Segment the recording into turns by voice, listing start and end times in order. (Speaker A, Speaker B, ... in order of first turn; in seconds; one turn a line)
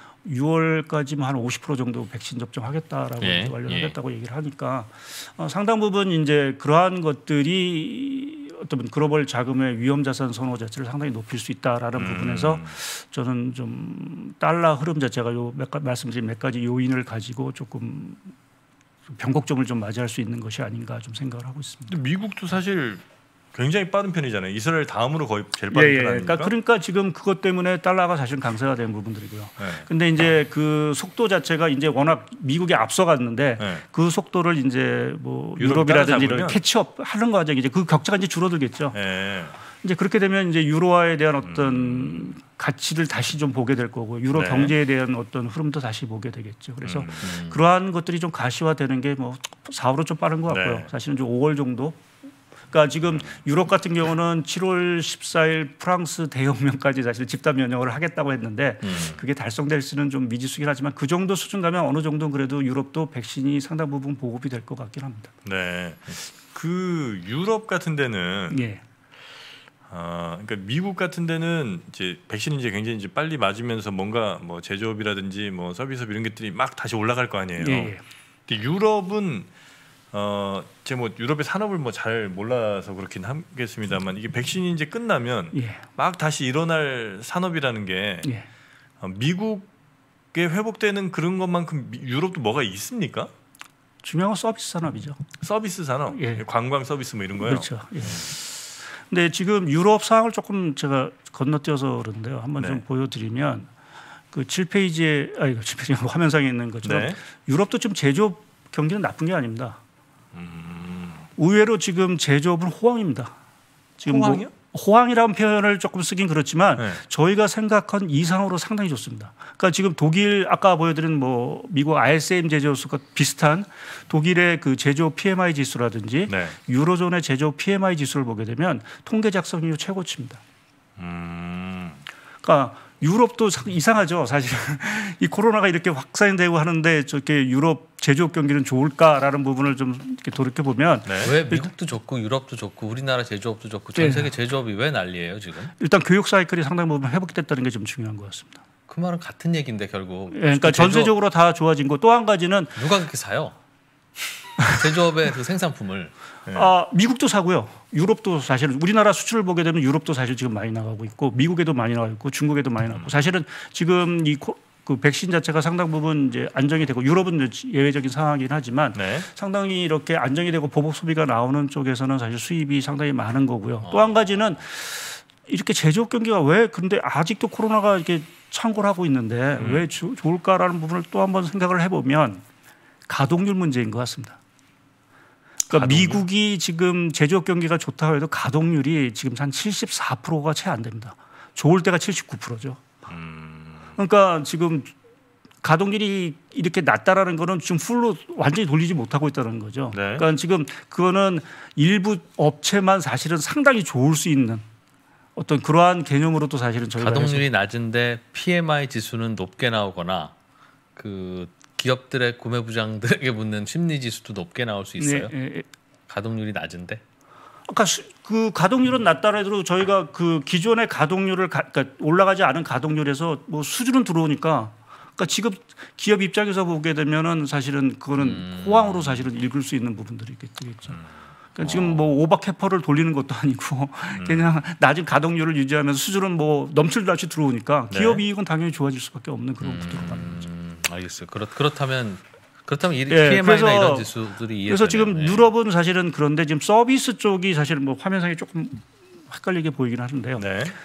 Speaker A: 0.2-18.3
Speaker B: 3.2-4.0
Speaker C: 12.0-12.8
Speaker A: 19.1-21.9
Speaker C: 21.9-23.0
Speaker C: 23.5-26.5
Speaker A: 25.7-39.0
Speaker C: 29.6-29.9
Speaker C: 33.6-33.8
Speaker C: 35.6-36.6
Speaker C: 38.9-39.6
Speaker A: 39.8-52.0
Speaker C: 41.4-42.4
Speaker C: 44.3-44.7
Speaker C: 46.8-47.3
Speaker B: 47.2-47.6
Speaker C: 50.5-50.9
Speaker A: 52.7-65.3
Speaker C: 53.1-53.4
Speaker B: 58.8-59.2
Speaker C: 65.5-68.6
Speaker A: 68.5-68.8
Speaker C: 69.9-78.0
Speaker A: 77.6-78.0
Speaker C: 78.5-79.5
Speaker C: 80.1-88.3
Speaker A: 85.5-85.8
Speaker C: 89.0-89.7
Speaker C: 90.3-93.3
Speaker A: 94.0-95.2
Speaker C: 95.4-97.7
Speaker A: 96.1-96.4
Speaker A: 97.4-98.3
Speaker A: 99.0-103.7
Speaker C: 102.6-102.8
Speaker A: 104.3-109.8
Speaker C: 106.8-107.2
Speaker C: 110.3-111.3
Speaker A: 111.4-113.4
Speaker A: 114.0-130.4
Speaker C: 114.0-114.5
Speaker C: 126.3-126.6
Speaker C: 131.0-132.0
Speaker A: 132.4-141.7
Speaker C: 141.1-141.3
Speaker B: 141.2-145.7
Speaker A: 143.9-144.3
Speaker A: 145.8-148.6
Speaker B: 148.9-151.1
Speaker A: 150.3-152.8
Speaker B: 152.8-153.6
Speaker B: 154.6-156.1
Speaker C: 156.5-156.7
Speaker A: 156.5-182.4
Speaker C: 168.9-169.3
Speaker B: 173.9-174.1
Speaker A: 183.1-184.4
Speaker C: 185.7-186.2
Speaker A: 185.7-193.0
Speaker C: 193.1-194.0
Speaker A: 194.0-194.9
Speaker A: 195.6-204.6
Speaker C: 199.9-200.3
Speaker A: 205.4-207.5
Speaker B: 207.0-210.3
Speaker B: 211.0-215.3
Speaker A: 215.0-215.7
Speaker B: 216.1-217.0
Speaker A: 217.7-231.0
Speaker B: 228.2-229.3
Speaker C: 230.9-231.2
Speaker A: 231.6-240.5
Speaker B: 231.6-232.0
Speaker C: 234.2-234.5
Speaker C: 237.9-238.2
Speaker B: 239.6-245.5
Speaker A: 243.1-244.1
Speaker A: 244.7-250.5
Speaker C: 250.4-250.8